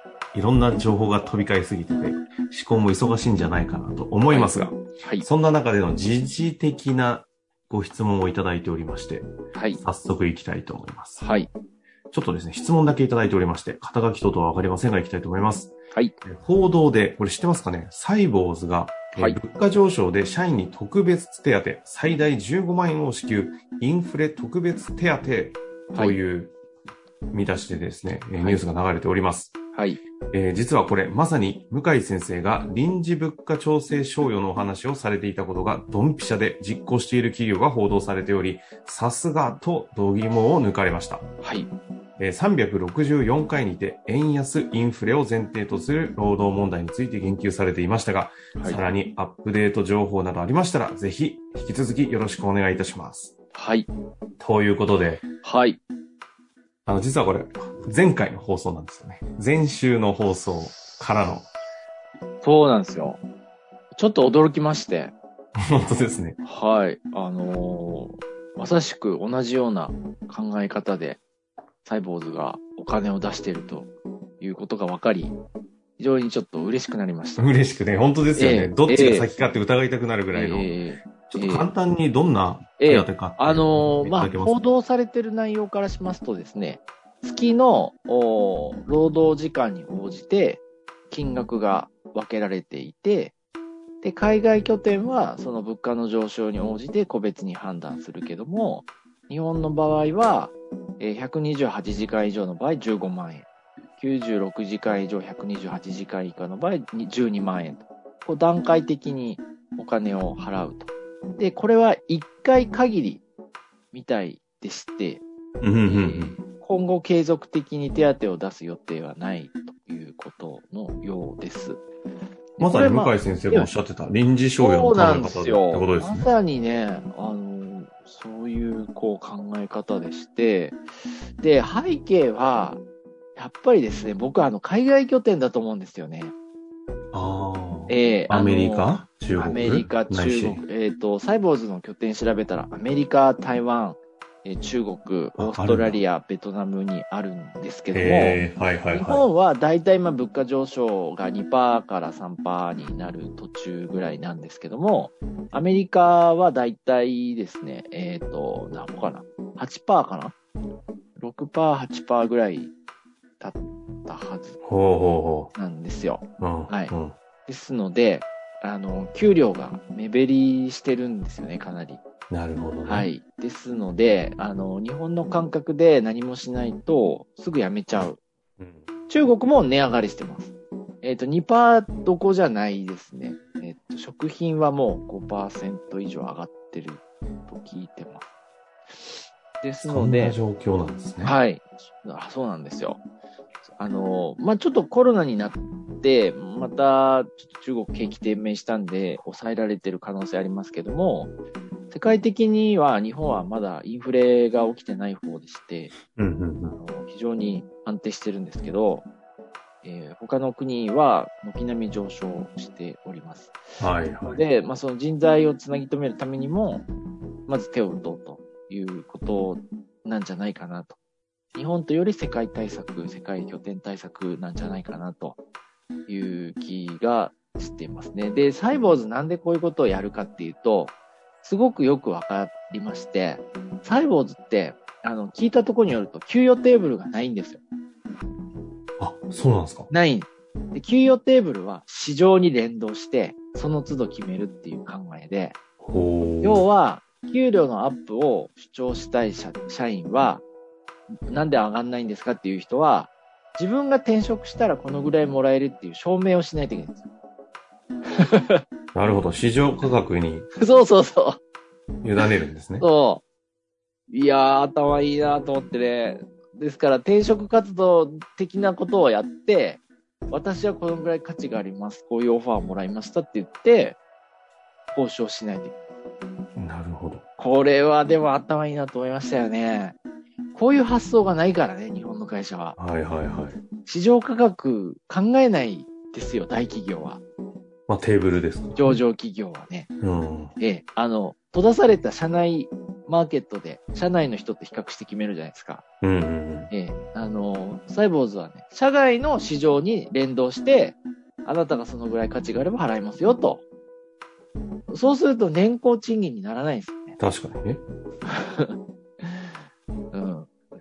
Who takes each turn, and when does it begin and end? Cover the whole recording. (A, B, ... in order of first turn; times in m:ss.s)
0:00.3-0:11.2 A
0:04.3-0:05.2 B
0:09.5-0:09.8 B
0:11.2-0:11.5 B
0:12.1-0:15.7 A
0:16.2-0:26.5 A
0:27.3-0:29.5 A
0:29.7-0:30.0 B
0:30.3-0:41.2 A
0:41.4-0:41.7 B
0:42.2-0:53.3 A
0:48.6-0:48.8 B
0:53.5-0:53.9 B
0:54.4-0:55.2 A
0:55.4-0:55.8 B
0:56.8-1:01.5 A
1:02.4-1:03.2 B
1:03.9-1:05.1 B
1:05.7-1:06.4 A
1:06.4-1:11.2 B
1:11.8-1:15.4 B
1:16.0-1:17.5 B
1:17.4-1:20.7 A
1:18.4-1:19.3 B
1:20.3-1:21.7 B
1:21.3-1:24.6 A
1:22.8-1:33.3 B
1:34.0-1:53.2 B
1:53.9-1:55.2 B
1:55.6-1:56.4 A
1:55.8-2:01.8 B
2:02.6-2:03.7 B
2:02.6-2:06.3 A
2:04.6-2:10.8 B
2:11.4-2:12.8 B
2:13.3-2:16.3 B
2:17.1-2:20.6 A
2:17.9-2:28.4 B
2:25.4-2:26.0 A
2:27.9-2:29.2 A
2:28.9-2:40.3 B
2:41.2-2:42.7 B
2:43.4-2:44.6 B
2:44.6-2:45.5 A
2:45.5-2:46.9 B
2:46.4-2:47.2 A
2:47.4-2:52.0 B
2:52.3-2:53.1 A
2:52.8-2:58.2 B
2:59.1-3:08.2 B
3:08.9-3:10.4 B
3:09.8-3:11.3 A
3:11.2-3:13.0 B
3:13.8-3:21.3 B
3:21.9-3:25.9 B
3:26.1-3:26.8 A
3:26.7-3:29.1 B
3:29.8-3:33.6 B
3:33.8-3:34.4 A
3:34.3-3:36.8 B
3:37.5-3:41.0 B
3:41.5-3:45.4 B
3:46.1-3:57.6 B
3:59.0-3:59.9 A
3:59.9-4:05.6 B
4:05.8-4:06.6 A
4:06.4-4:10.4 B
4:11.3-4:17.1 B
4:18.2-4:18.6 B
4:18.9-4:20.5 A
4:20.6-4:21.4 B
4:22.0-4:22.8 A
4:22.8-4:23.2 B
4:24.1-4:34.0 B
4:34.9-4:35.7 B
4:36.6-4:37.2 A
4:37.4-4:40.0 B
4:40.5-4:42.8 B
4:42.8-4:43.6 A
4:43.8-4:47.2 B
4:47.9-4:49.0 A
4:48.7-4:49.9 B
4:50.0-4:50.5 A
4:50.6-4:55.8 B
4:56.0-4:56.7 A
4:56.7-5:03.6 B
5:04.9-5:07.2 B
5:07.2-5:07.8 A
5:08.2-5:09.5 B
5:10.1-5:10.5 B